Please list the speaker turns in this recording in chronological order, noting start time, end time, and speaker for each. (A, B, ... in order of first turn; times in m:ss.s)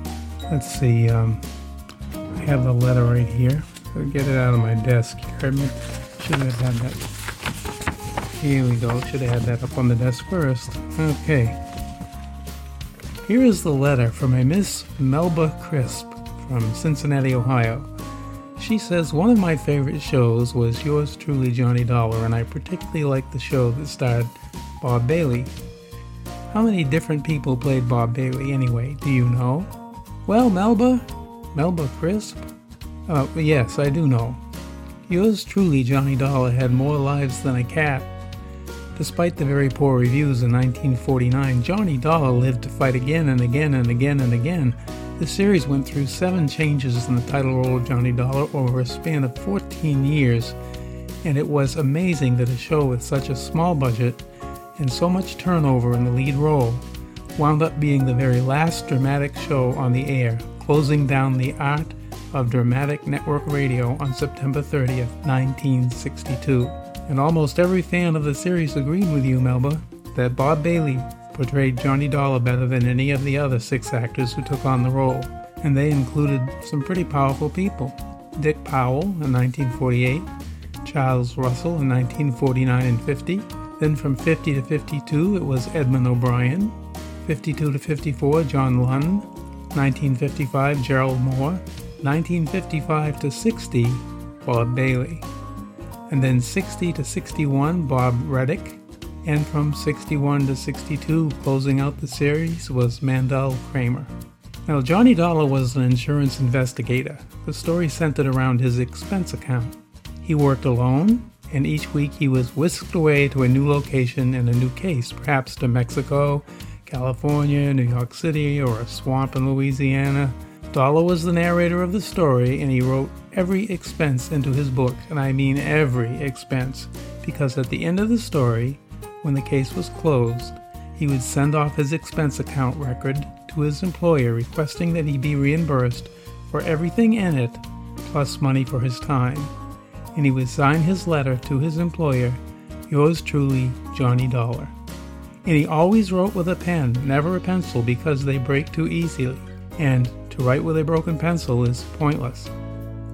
0:00.5-0:01.4 A
0:02.4-0:07.1 A
0:08.4-0:11.6 A
0:13.2-0:17.9 A
0:18.6-0:25.5 A
0:26.5-0:29.7 A
0:30.2-0:32.4 A
0:33.1-0:34.4 A
0:35.1-0:38.1 A
0:39.0-0:50.6 A
0:51.2-0:54.2 A
0:54.8-0:56.8 A
0:57.4-1:20.3 A
1:20.8-1:35.2 A
1:36.1-1:44.1 A
1:44.7-2:19.5 A
2:20.1-2:24.7 A
2:25.4-2:32.5 A